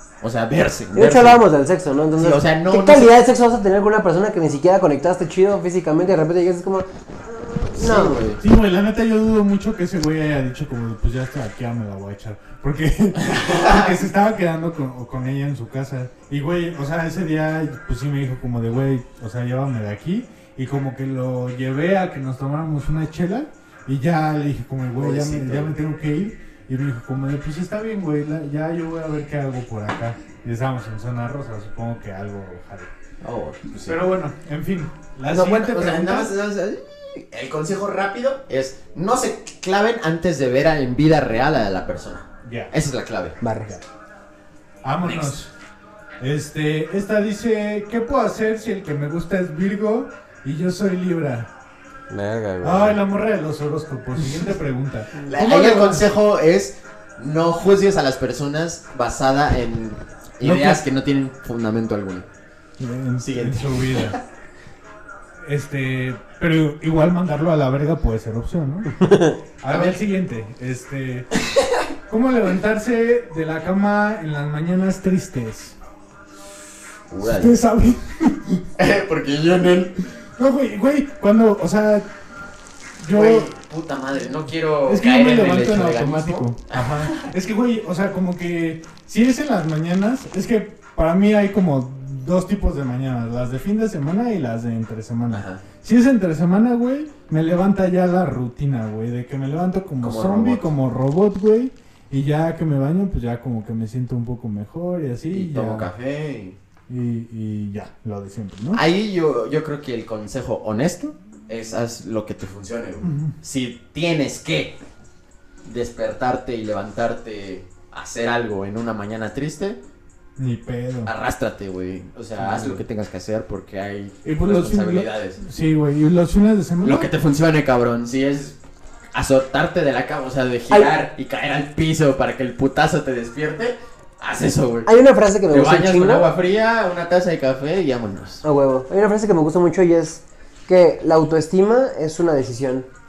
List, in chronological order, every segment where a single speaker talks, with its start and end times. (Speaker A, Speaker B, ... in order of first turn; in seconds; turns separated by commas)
Speaker A: 0.2-1.4, Speaker B: 0.9-8.2, Speaker A: 2.2-3.1, Speaker A: 7.7-8.4, Speaker C: 8.4-32.9, Speaker A: 13.2-13.9, Speaker A: 24.9-25.7, Speaker A: 33.2-34.1, Speaker C: 33.9-36.3, Speaker A: 35.3-43.4, Speaker C: 42.4-42.7, Speaker B: 43.4-43.8, Speaker C: 44.8-45.5, Speaker A: 45.0-45.3, Speaker C: 46.2-51.5, Speaker B: 52.1-53.0, Speaker C: 52.6-56.1, Speaker A: 55.3-62.3, Speaker C: 60.4-60.8, Speaker C: 62.8-64.2, Speaker A: 63.2-64.2, Speaker C: 65.4-71.3, Speaker B: 69.0-69.4, Speaker A: 69.7-70.0, Speaker C: 72.1-75.8, Speaker A: 77.1-77.6, Speaker C: 77.2-78.7, Speaker A: 78.8-80.1, Speaker C: 80.4-82.1, Speaker C: 83.0-83.5, Speaker A: 83.1-87.3, Speaker C: 84.9-105.9, Speaker A: 95.3-95.6, Speaker A: 100.0-100.7, Speaker A: 105.3-106.6, Speaker C: 106.9-108.8, Speaker A: 108.7-114.8, Speaker C: 113.0-113.3, Speaker A: 115.7-119.8, Speaker C: 120.4-121.1, Speaker A: 121.1-125.4, Speaker C: 122.4-122.8, Speaker C: 124.2-127.1, Speaker A: 126.8-128.6, Speaker A: 129.1-134.9, Speaker B: 134.9-136.3, Speaker A: 135.5-138.4, Speaker B: 138.4-142.9